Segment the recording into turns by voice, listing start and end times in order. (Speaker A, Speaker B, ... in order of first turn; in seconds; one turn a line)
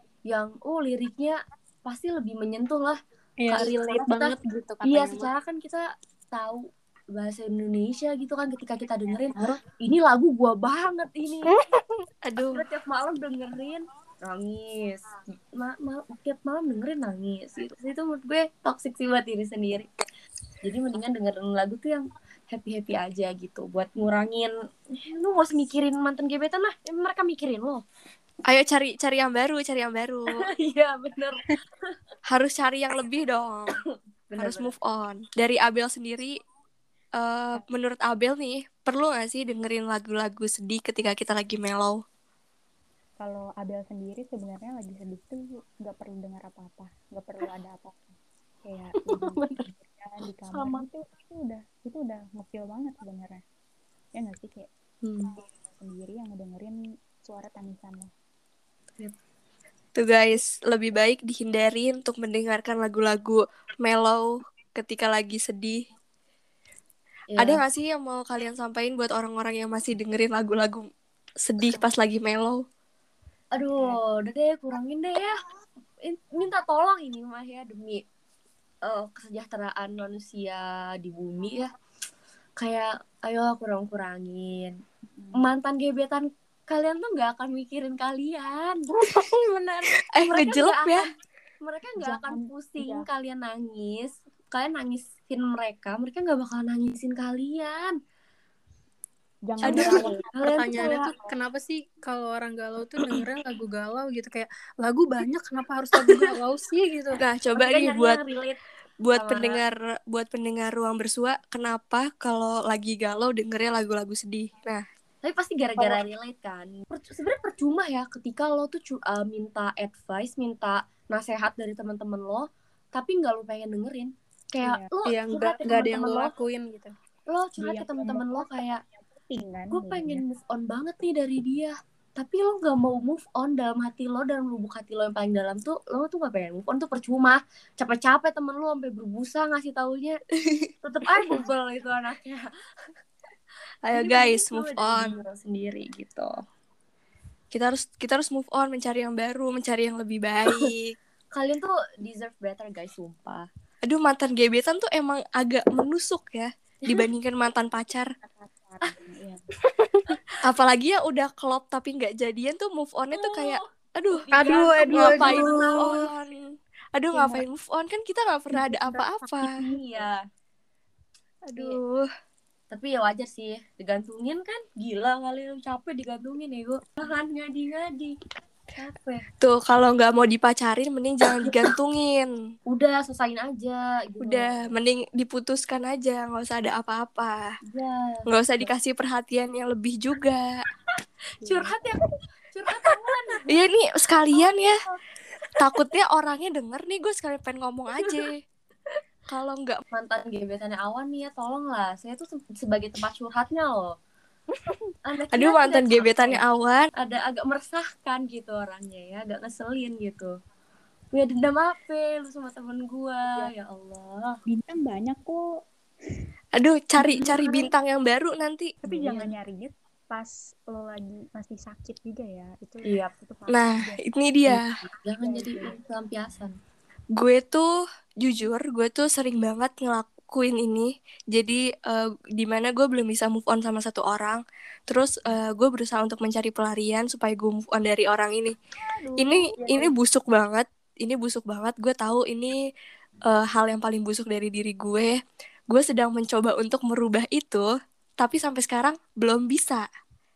Speaker A: 0.3-11.5
Speaker B: 3.4-5.3
Speaker B: 11.5-12.0
Speaker C: 12.2-12.6
Speaker A: 12.5-19.9
Speaker A: 20.6-27.8
Speaker C: 28.5-30.3
Speaker A: 30.4-31.9
Speaker C: 32.3-33.7
Speaker A: 34.3-34.7
Speaker C: 34.4-36.4
Speaker C: 37.2-42.0
Speaker D: 43.2-53.4
Speaker B: 49.1-49.6
Speaker D: 54.1-54.7
Speaker A: 55.0-55.3
Speaker D: 55.8-58.1
Speaker C: 60.0-65.8
Speaker A: 67.3-67.6
Speaker C: 67.4-70.9
Speaker C: 71.4-72.6
Speaker A: 73.5-75.3
Speaker A: 76.0-78.0
Speaker A: 78.8-81.7
Speaker A: 82.6-84.8
Speaker D: 85.1-85.5
Speaker A: 85.3-91.1
Speaker C: 90.1-91.0
Speaker A: 91.6-98.0
Speaker D: 92.0-93.1
Speaker D: 99.5-101.3
Speaker A: 99.6-101.1
Speaker B: 99.7-107.2
Speaker C: 107.2-108.2
Speaker A: 107.5-108.6
Speaker C: 109.0-114.8
Speaker A: 109.1-109.6
Speaker A: 115.2-126.3
Speaker D: 124.6-124.9
Speaker B: 125.0-126.9
Speaker A: 127.3-128.8
Speaker D: 127.6-130.2
Speaker A: 129.7-140.2
Speaker C: 140.4-140.7
Speaker A: 140.8-142.4
Speaker C: 143.9-145.2
Speaker A: 143.9-146.3
Speaker C: 147.5-150.9
Speaker A: 151.3-153.5
Speaker C: 153.8-158.1
Speaker D: 158.2-159.4
Speaker B: 159.7-160.2
Speaker C: 160.4-169.5
Speaker A: 163.1-166.0
Speaker B: 164.3-166.0
Speaker D: 167.1-167.4
Speaker D: 168.6-170.1
Speaker A: 169.7-170.2
Speaker C: 171.6-172.1
Speaker A: 172.7-178.2
Speaker A: 178.7-179.2
Speaker C: 179.4-182.3
Speaker A: 182.7-184.7
Speaker C: 184.2-187.4
Speaker A: 187.7-188.7
Speaker C: 188.3-190.4
Speaker D: 191.4-191.8
Speaker A: 191.4-192.0
Speaker A: 192.5-193.6
Speaker C: 193.5-194.8
Speaker A: 194.3-194.9
Speaker C: 195.6-198.4
Speaker C: 199.3-199.8
Speaker A: 199.9-203.9
Speaker A: 205.1-206.4
Speaker C: 205.3-206.9
Speaker A: 207.0-210.3
Speaker A: 211.1-214.3
Speaker D: 214.5-215.4
Speaker C: 216.6-218.7
Speaker D: 217.0-217.7
Speaker D: 218.8-224.1
Speaker A: 218.8-219.3
Speaker C: 223.5-224.6
Speaker A: 224.4-226.5
Speaker D: 225.2-225.8
Speaker C: 227.2-227.7
Speaker C: 228.2-238.5
Speaker A: 239.0-239.9
Speaker C: 239.2-242.6
Speaker C: 243.3-245.2
Speaker C: 245.7-247.7
Speaker C: 248.2-249.8